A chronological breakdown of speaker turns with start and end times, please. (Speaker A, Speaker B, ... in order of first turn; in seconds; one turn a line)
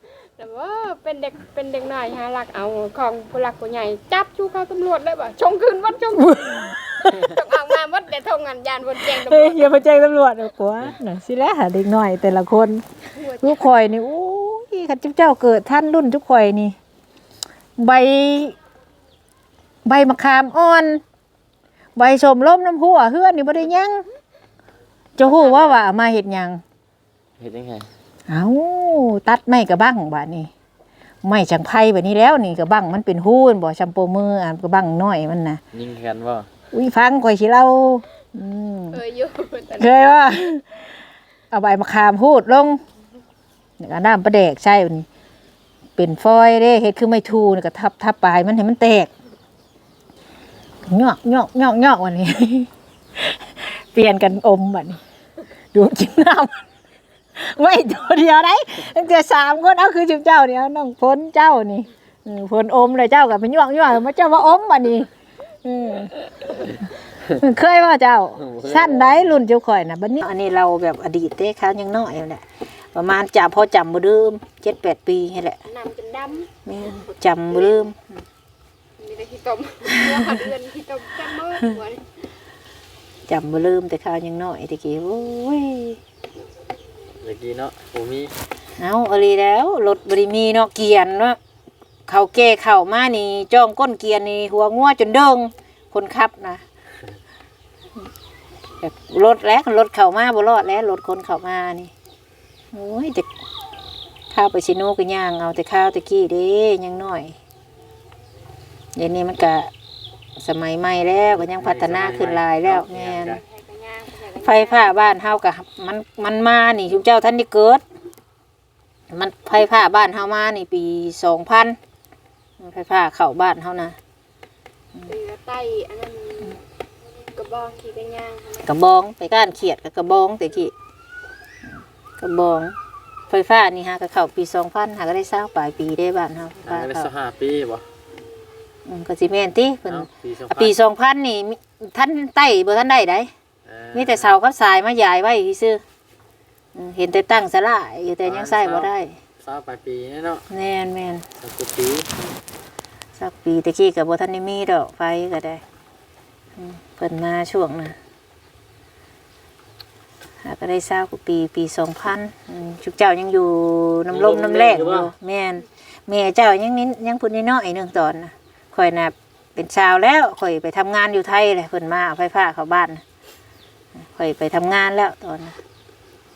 Speaker A: 0.4-9.7
Speaker B: 6.2-7.4
Speaker B: 9.0-12.8
Speaker A: 13.1-13.8
Speaker B: 13.4-16.8
Speaker B: 17.8-18.6
Speaker B: 19.8-21.0
Speaker B: 21.9-24.0
Speaker B: 25.2-26.6
Speaker A: 25.2-25.8
Speaker C: 27.4-27.9
Speaker B: 28.3-30.5
Speaker B: 31.2-35.6
Speaker C: 35.7-36.5
Speaker B: 36.7-39.0
Speaker A: 38.9-40.3
Speaker B: 39.8-40.9
Speaker B: 41.5-42.8
Speaker B: 43.8-45.1
Speaker B: 46.0-49.1
Speaker B: 50.9-55.0
Speaker B: 55.7-56.6
Speaker B: 57.3-65.1
Speaker B: 65.6-75.6
Speaker C: 68.4-69.3
Speaker A: 75.7-76.5
Speaker B: 76.7-78.2
Speaker A: 79.0-82.1
Speaker B: 83.3-86.0
Speaker C: 87.2-88.3
Speaker B: 88.8-91.4
Speaker B: 92.1-96.6
Speaker B: 98.8-101.9
Speaker B: 102.7-103.3
Speaker B: 104.3-107.4
Speaker B: 109.0-109.7
Speaker B: 110.3-113.4
Speaker C: 111.3-113.4
Speaker A: 113.2-115.1
Speaker B: 114.4-117.8
Speaker B: 119.1-121.8
Speaker B: 122.6-124.0
Speaker A: 125.0-126.6
Speaker A: 127.3-128.7
Speaker B: 128.6-130.7
Speaker B: 132.2-132.8
Speaker B: 133.3-137.1
Speaker C: 136.6-137.8
Speaker B: 138.8-143.3
Speaker C: 139.9-140.8
Speaker C: 143.7-144.3
Speaker B: 143.9-145.8
Speaker B: 146.7-149.2
Speaker C: 148.2-148.9
Speaker C: 149.4-150.4
Speaker B: 150.5-151.2
Speaker C: 151.4-152.1
Speaker B: 153.2-155.6
Speaker B: 156.6-157.9
Speaker B: 160.4-173.0
Speaker C: 164.1-165.1
Speaker B: 174.0-175.6